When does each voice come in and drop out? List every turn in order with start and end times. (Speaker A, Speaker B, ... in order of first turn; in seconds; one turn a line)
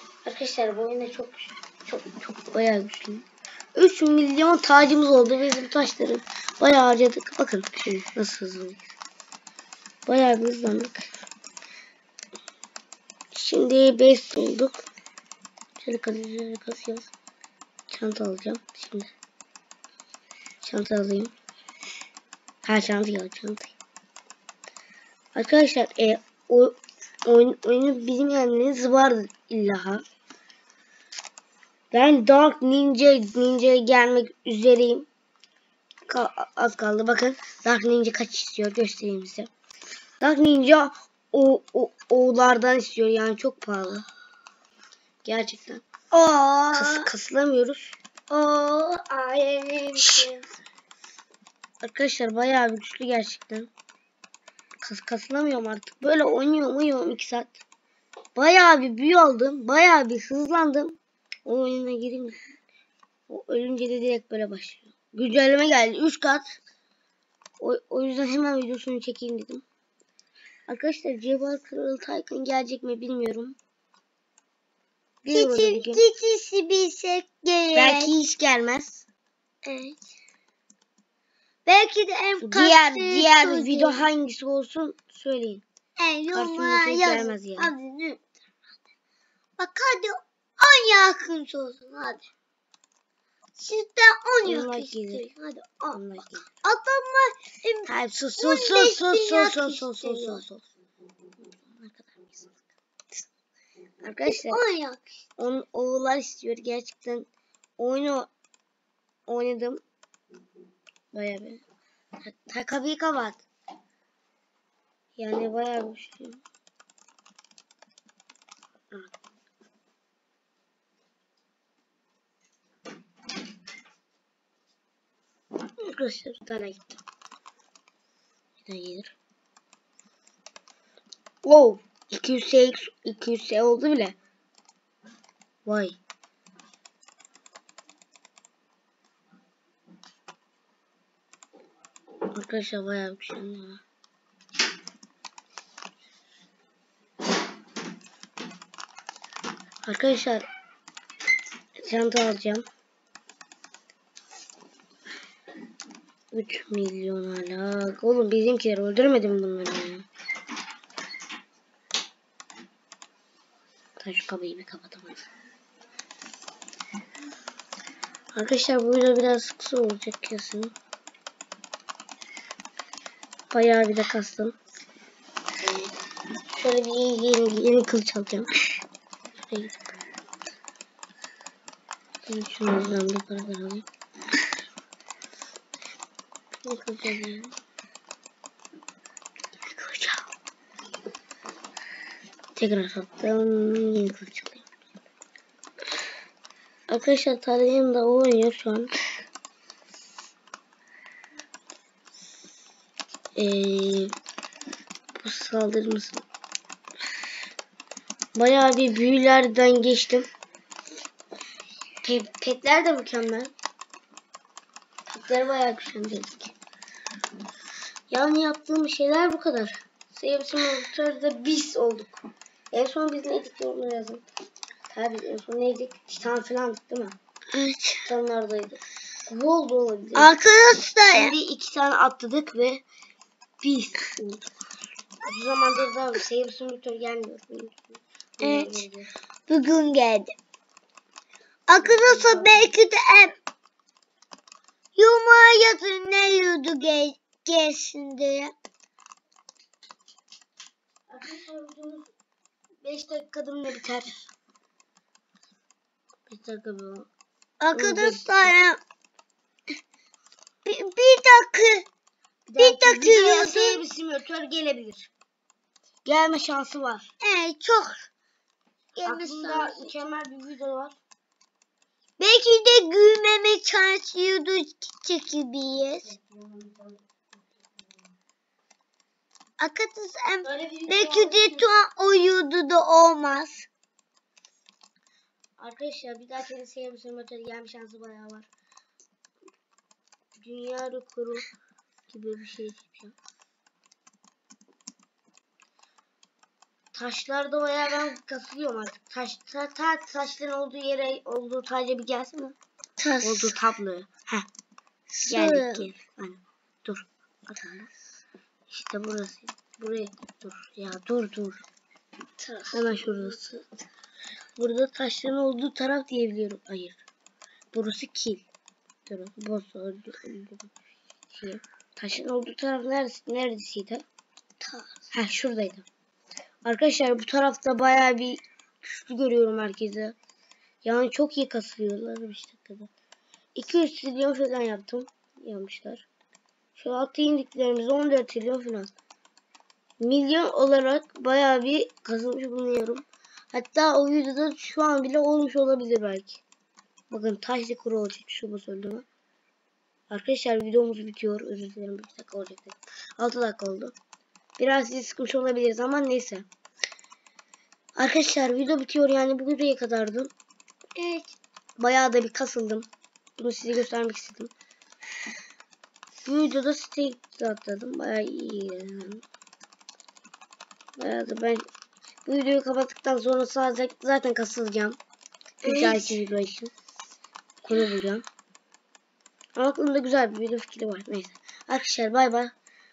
Speaker A: 0.2-8.8
Speaker A: 10.1-11.1
Speaker A: 13.3-14.8
Speaker A: 15.8-17.1
Speaker A: 17.9-19.1
Speaker A: 20.6-21.3
Speaker A: 22.6-23.7
Speaker A: 25.3-30.0
Speaker A: 31.9-35.1
Speaker A: 36.1-39.5
Speaker A: 40.2-44.0
Speaker A: 45.2-45.9
Speaker B: 46.1-47.1
Speaker A: 46.7-48.0
Speaker B: 48.3-50.4
Speaker A: 50.0-50.2
Speaker A: 51.8-53.7
Speaker A: 54.8-57.6
Speaker A: 58.4-62.4
Speaker A: 63.3-66.5
Speaker A: 67.6-69.6
Speaker A: 70.7-73.6
Speaker A: 75.2-76.0
Speaker B: 75.3-78.1
Speaker A: 77.7-79.1
Speaker B: 79.6-80.0
Speaker B: 81.7-84.0
Speaker A: 82.4-85.6
Speaker B: 86.0-88.2
Speaker A: 86.3-87.7
Speaker B: 89.6-92.2
Speaker B: 93.5-100.4
Speaker A: 94.4-95.2
Speaker A: 95.9-96.5
Speaker A: 97.8-100.7
Speaker A: 101.6-102.6
Speaker A: 104.0-104.6
Speaker B: 104.2-105.0
Speaker A: 105.4-108.3
Speaker A: 109.3-109.8
Speaker A: 111.1-111.6
Speaker A: 112.2-113.4
Speaker A: 115.2-116.4
Speaker A: 125.8-127.0
Speaker A: 128.6-129.1
Speaker A: 131.4-134.2
Speaker A: 135.7-136.0
Speaker A: 142.3-143.8
Speaker A: 149.8-150.4
Speaker A: 151.8-152.7
Speaker A: 156.3-160.1
Speaker A: 164.0-165.2
Speaker A: 168.3-170.7
Speaker A: 173.5-174.5
Speaker A: 176.5-178.5
Speaker A: 179.4-179.8
Speaker A: 182.2-183.8
Speaker A: 186.6-187.5
Speaker A: 189.7-190.2
Speaker A: 192.6-194.7
Speaker A: 196.9-198.9
Speaker A: 203.3-204.1
Speaker A: 205.2-206.2
Speaker A: 208.3-210.3
Speaker A: 212.0-213.5
Speaker A: 215.1-216.5
Speaker A: 218.1-224.2
Speaker A: 224.9-227.2
Speaker B: 227.5-228.1
Speaker A: 228.0-230.3
Speaker B: 230.2-231.3
Speaker A: 231.1-232.8
Speaker A: 233.6-234.5
Speaker A: 235.2-239.1
Speaker B: 238.4-238.8
Speaker B: 239.5-240.3
Speaker B: 241.7-243.3
Speaker A: 241.8-242.7
Speaker B: 244.9-248.5
Speaker A: 251.1-252.1
Speaker A: 252.8-254.3
Speaker A: 256.3-257.1
Speaker B: 257.6-258.8
Speaker A: 257.7-258.5
Speaker B: 260.6-261.9
Speaker A: 262.5-265.1
Speaker B: 262.6-263.8
Speaker A: 266.0-267.1
Speaker B: 267.2-268.1
Speaker B: 268.9-269.9
Speaker A: 269.0-271.0
Speaker B: 272.2-276.1
Speaker A: 276.0-277.0
Speaker B: 279.6-283.7
Speaker A: 280.4-281.7
Speaker A: 285.6-288.5
Speaker A: 290.4-291.5
Speaker A: 292.1-293.1
Speaker A: 296.9-302.6
Speaker B: 303.0-303.6
Speaker A: 303.2-304.5
Speaker B: 305.2-305.9
Speaker A: 305.3-307.9
Speaker A: 308.7-311.6
Speaker B: 312.4-313.3
Speaker A: 312.7-313.6
Speaker A: 314.6-317.0
Speaker A: 317.7-318.4
Speaker A: 319.1-320.7
Speaker A: 321.3-324.0
Speaker B: 324.6-324.9
Speaker A: 325.1-325.9
Speaker A: 326.6-330.1
Speaker A: 330.8-332.9
Speaker A: 333.5-336.1
Speaker A: 336.7-338.9
Speaker A: 340.0-346.4
Speaker A: 347.1-349.1
Speaker A: 350.1-353.9
Speaker A: 354.6-356.4
Speaker A: 358.0-360.3
Speaker B: 360.9-361.3
Speaker A: 361.8-362.9
Speaker A: 363.4-364.5
Speaker A: 366.2-369.2
Speaker A: 371.0-371.6
Speaker A: 372.2-375.0
Speaker A: 375.6-376.7
Speaker B: 375.6-376.2
Speaker A: 377.6-378.2
Speaker A: 379.6-382.5